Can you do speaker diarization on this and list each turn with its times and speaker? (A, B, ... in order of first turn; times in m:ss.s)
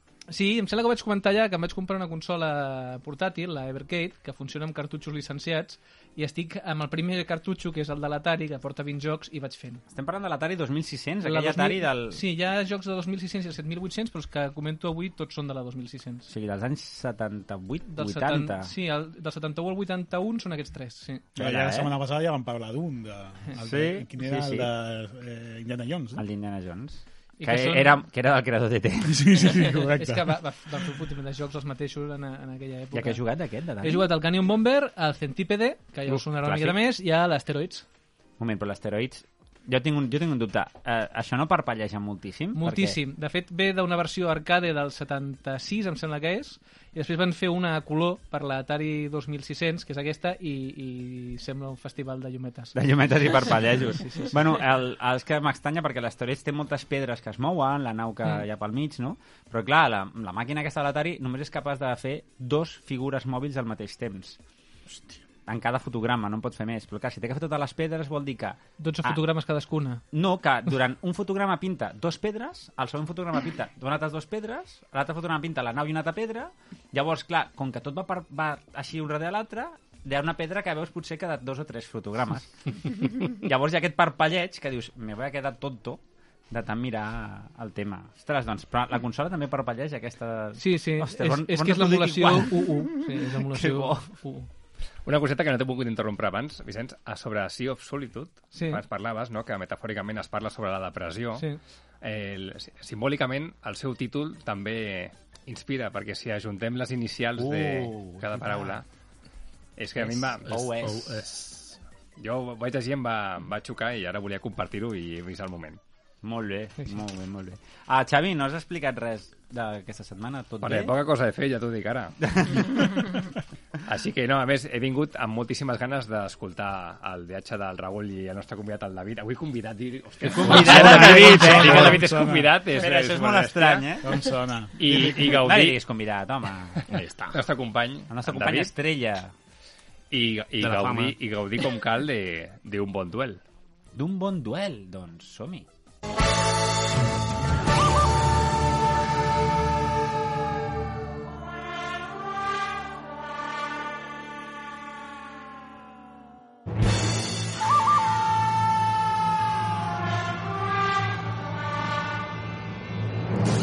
0:00.3-0:09.8 A
0:09.9-0:12.2 B
0:11.2-0:16.3 A
0:16.3-0:18.7 B
0:17.9-0:21.3 A
0:21.4-0:26.2 C
0:21.4-0:21.9 B
0:23.6-0:24.7 B
0:26.2-0:29.4 B
0:27.4-0:28.0 A
0:29.0-0:30.4 C
0:29.4-0:33.2 A
0:32.9-0:34.1 B
0:33.8-0:37.8 A
0:36.2-0:36.7 B
0:38.4-0:43.0 B
0:42.5-0:52.7 A
0:52.7-1:04.4 B
0:53.4-0:54.5 A
1:05.5-1:09.2 B
1:08.8-1:10.0 A
1:10.1-1:34.1 B
1:30.6-1:34.5 A
1:35.0-1:41.5 D
1:38.5-1:38.8 A
1:42.0-1:48.8 D
1:47.4-1:48.7 E
1:49.8-1:50.6 D
1:50.4-1:51.2 B
1:50.4-1:51.7 E
1:52.2-1:55.8 D
1:56.2-2:00.9 B
2:00.6-2:02.8 D
2:02.2-2:03.0 B
2:03.8-2:13.9 D
2:10.2-2:12.0 B
2:10.3-2:10.7 E
2:10.5-2:12.5 C
2:12.7-2:14.2 B
2:14.0-2:15.0 C
2:14.8-2:15.8 D
2:14.8-2:16.8 B
2:16.8-2:18.7 D
2:16.9-2:17.4 E
2:18.1-2:19.3 B
2:20.1-2:23.4 D
2:20.6-2:21.1 E
2:23.9-2:25.6 B